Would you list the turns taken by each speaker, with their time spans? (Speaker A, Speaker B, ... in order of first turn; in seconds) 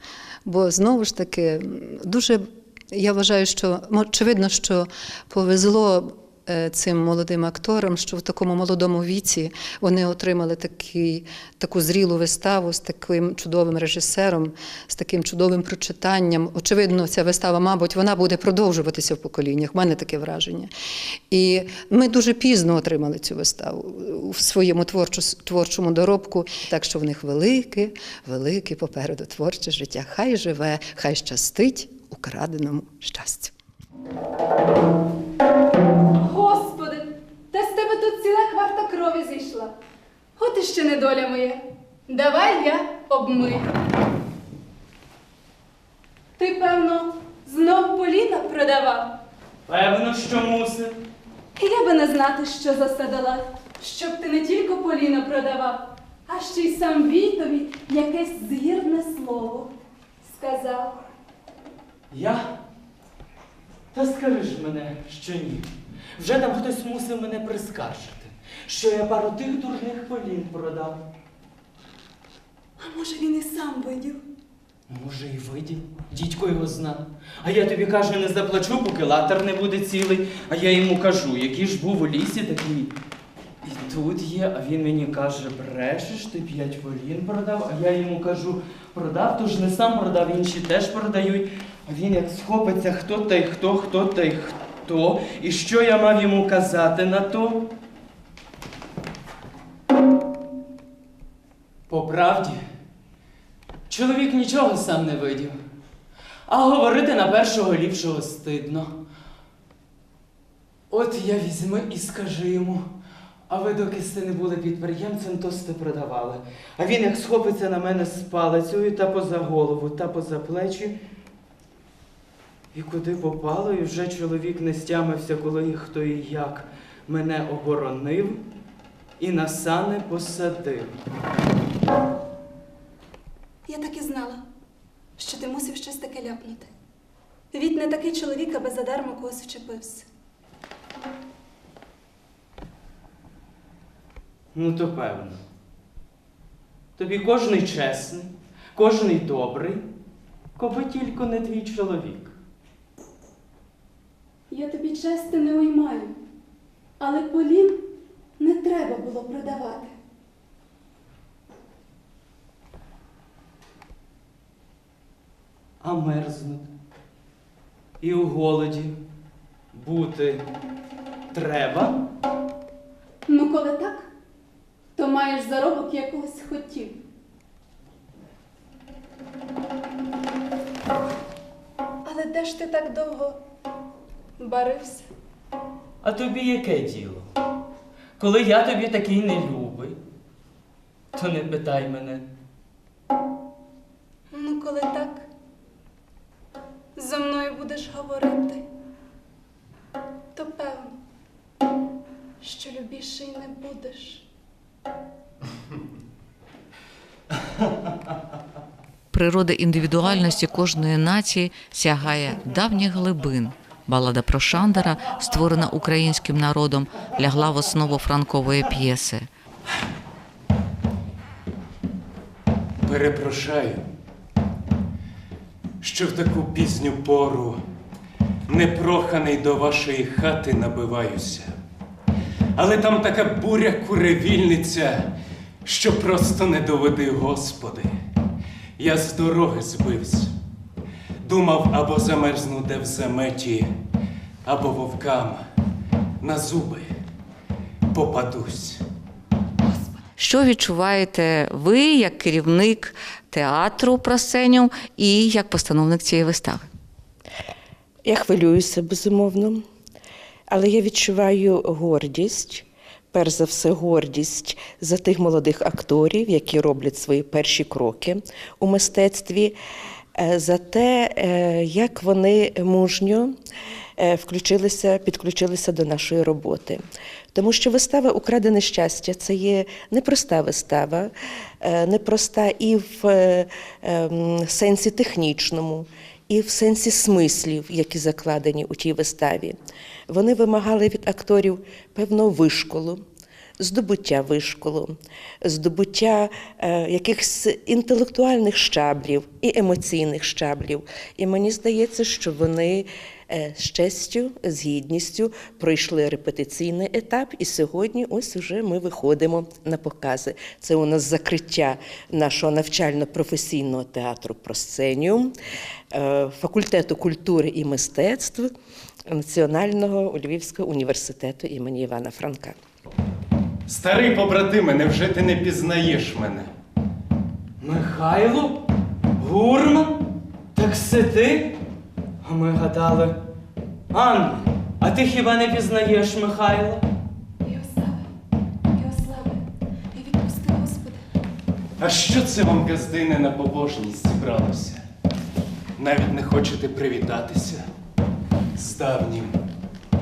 Speaker A: 0.4-20.7, 21.3-33.5
Speaker B: 36.2-39.7, 40.4-43.7, 46.4-49.1, 51.5-59.7, 60.2-61.0, 72.8-74.2, 133.7-134.4, 135.2-136.7, 137.5-140.0, 154.5-156.1, 157.0-157.8, 158.4-159.9, 173.3-174.1, 174.9-177.0, 182.0-183.4, 184.4-185.1, 194.3-195.2, 196.9-198.6, 200.3-200.9, 202.4-204.2, 337.4-338.1, 338.7-339.4, 339.9-341.0
Speaker C: 49.7-51.0, 62.1-62.5, 63.9-71.0, 74.9-82.9, 83.6-97.7, 101.9-102.6, 103.9-105.5, 106.5-108.9, 110.9-112.9, 113.5-120.9, 122.7-128.4, 129.2-131.0, 144.5-145.4, 147.0-149.8, 150.6-152.3, 165.8-166.7, 168.0-169.0, 169.7-170.4, 171.3-172.0, 186.0-187.3, 188.2-190.0, 191.1-192.2, 327.6-328.6, 329.2-330.0, 330.5-331.6, 332.2-333.2, 333.9-336.8
Speaker D: 209.1-219.3, 250.2-256.7
Speaker E: 222.8-223.8, 225.8-227.6, 228.5-231.5, 232.6-235.1, 235.6-237.9, 238.8-240.3, 241.2-243.7, 244.4-245.4, 246.2-246.9, 247.9-248.8, 323.7-326.5, 341.8-344.8, 345.8-347.6, 348.6-349.4
Speaker F: 258.0-259.6, 260.5-269.6, 270.2-273.3, 274.0-276.8, 277.3-289.6, 290.1-293.0, 293.6-315.3, 315.9-318.5, 319.1-322.6